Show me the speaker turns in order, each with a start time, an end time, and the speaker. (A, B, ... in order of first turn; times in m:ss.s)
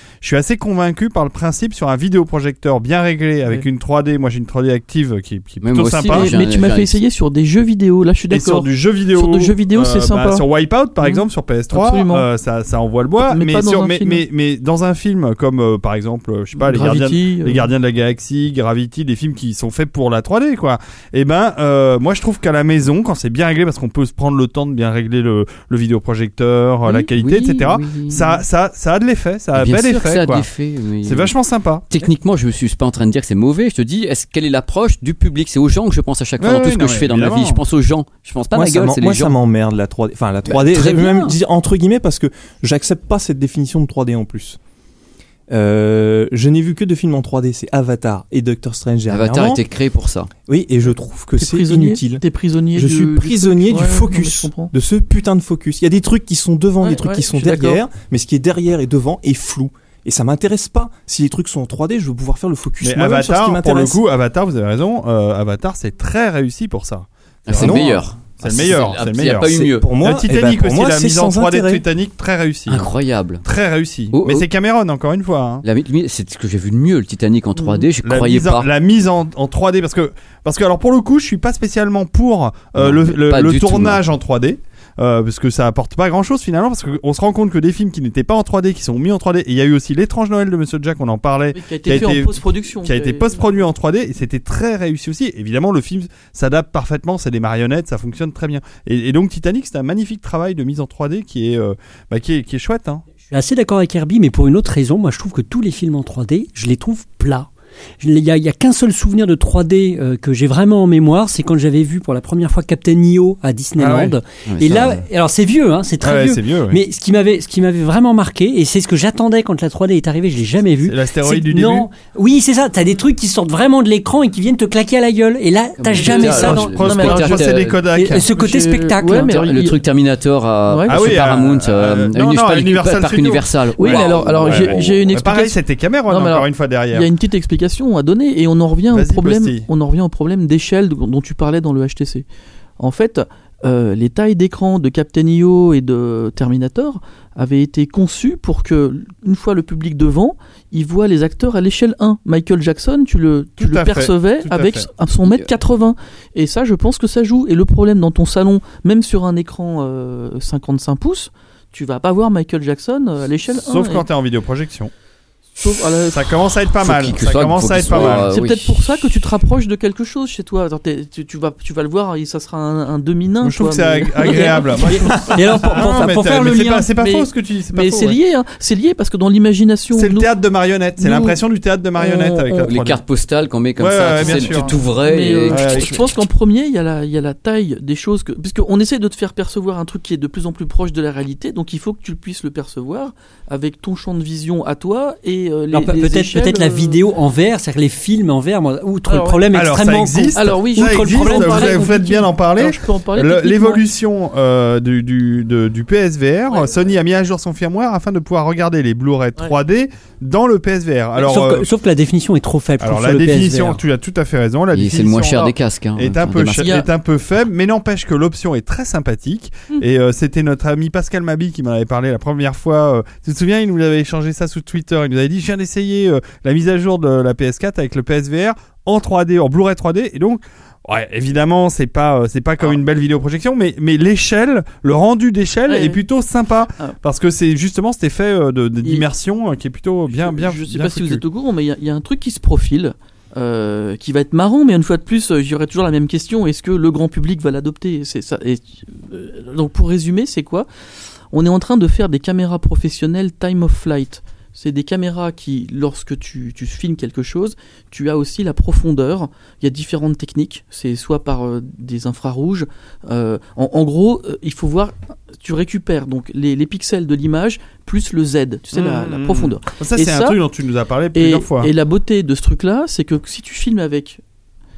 0:00.2-0:06.3 A
0:05.6-0:07.0 B
0:06.1-0:10.4 C
0:08.3-0:30.4 A
0:11.0-0:12.2 C
0:13.2-0:14.2 C
0:16.6-0:17.7 C
0:26.9-0:28.4 B
0:29.5-0:31.3 B
0:31.0-0:31.9 A
0:31.9-0:39.3 B
0:36.4-0:37.6 A
0:38.5-0:44.6 D
0:40.4-0:41.3 B
0:45.5-0:49.6 D
0:49.1-0:50.3 B
0:50.5-0:52.2 D
0:51.4-0:54.7 C
0:52.7-1:04.0 D
0:56.8-0:57.8 C
1:02.8-1:12.9 A
1:07.5-1:09.9 B
1:07.5-1:07.9 D
1:09.5-1:11.8 D
1:12.7-1:13.4 B
1:13.4-1:15.6 A
1:14.1-1:14.4 B
1:15.6-1:18.7 B
1:17.6-1:17.9 C
1:18.0-1:43.0 A
1:22.8-1:24.0 B
1:31.5-1:33.5 C
1:43.3-1:47.5 E
1:48.0-2:06.8 E
1:53.8-1:54.2 A
1:54.5-1:55.0 B
1:56.0-1:56.8 A
2:00.8-2:01.9 A
2:05.8-2:07.8 B
2:06.0-2:07.5 C
2:06.2-2:08.2 A
2:07.9-2:09.4 E
2:08.3-2:09.8 C
2:09.3-2:15.0 B
2:10.7-2:11.2 C
2:10.9-2:17.1 A
2:13.8-2:15.6 C
2:16.1-2:22.2 C
2:18.9-2:19.7 A
2:22.8-2:44.0 C
2:33.6-2:34.9 A
2:43.5-2:44.9 A
2:45.6-2:46.3 C
2:46.1-2:48.3 A
2:46.8-2:48.8 B
2:47.9-3:00.3 C
2:53.4-2:58.2 A
2:54.2-2:56.8 E
2:59.9-3:03.0 A
3:01.0-3:01.4 C
3:02.0-3:02.7 C
3:02.6-3:06.1 B
3:03.8-3:04.7 A
3:04.2-3:17.0 C
3:05.5-3:06.0 A
3:15.7-3:22.1 E
3:19.1-3:19.4 C
3:19.5-3:31.7 A
3:20.3-3:23.8 C
3:31.2-3:33.8 E
3:32.8-4:01.2 A
3:34.7-3:36.7 B
3:36.6-3:36.8 C
3:55.7-3:56.0 C
4:00.1-4:10.7 C
4:11.3-4:30.4 C
4:28.7-4:31.7 A
4:31.1-4:34.2 C